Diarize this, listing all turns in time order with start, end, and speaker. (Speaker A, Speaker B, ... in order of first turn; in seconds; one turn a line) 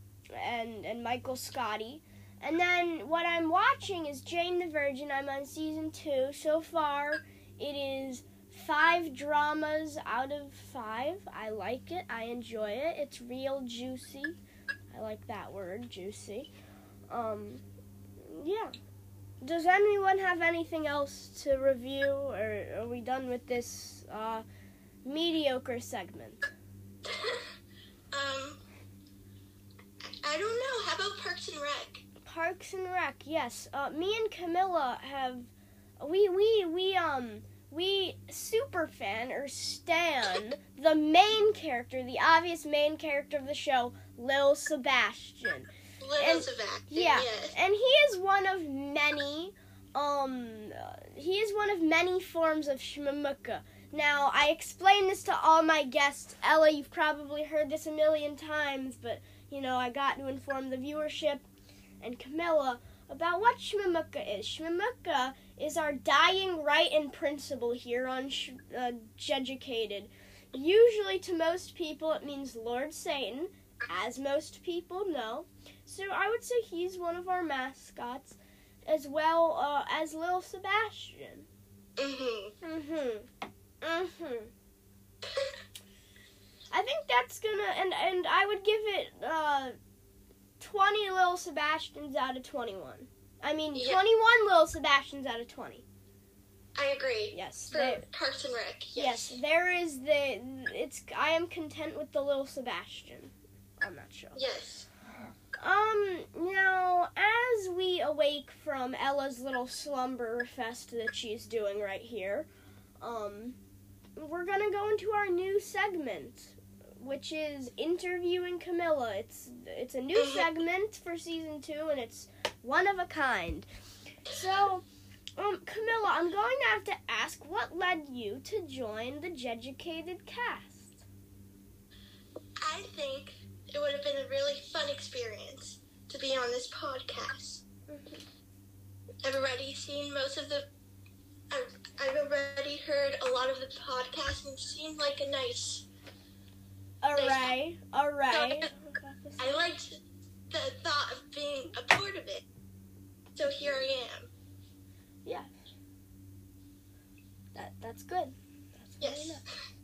Speaker A: 0.3-14.4
Speaker A: 14.9-16.5
Speaker A: 17.1-17.6
Speaker A: 18.2-18.7
Speaker A: 19.4-24.4
Speaker A: 25.0-26.5
Speaker B: 28.1-28.6
Speaker B: 30.2-32.0
Speaker A: 32.2-61.4
Speaker B: 46.0-47.5
Speaker A: 62.0-81.5
Speaker B: 82.0-82.5
Speaker A: 82.6-83.3
Speaker A: 83.8-84.5
Speaker A: 86.7-89.8
Speaker A: 90.6-95.8
Speaker B: 93.8-94.0
Speaker B: 96.8-99.4
Speaker A: 97.3-98.1
Speaker A: 99.0-104.5
Speaker B: 104.4-104.9
Speaker A: 105.6-112.5
Speaker A: 113.0-113.6
Speaker A: 114.2-123.7
Speaker B: 120.2-120.5
Speaker A: 124.3-124.9
Speaker A: 125.4-131.0
Speaker B: 132.6-137.6
Speaker A: 137.9-138.2
Speaker B: 139.2-140.7
Speaker B: 141.5-145.9
Speaker A: 147.0-149.7
Speaker B: 147.1-147.5
Speaker B: 148.3-148.7
Speaker B: 149.4-150.0
Speaker B: 150.5-152.4
Speaker B: 153.3-154.3
Speaker A: 155.2-155.5
Speaker A: 157.6-159.4
Speaker B: 159.0-159.4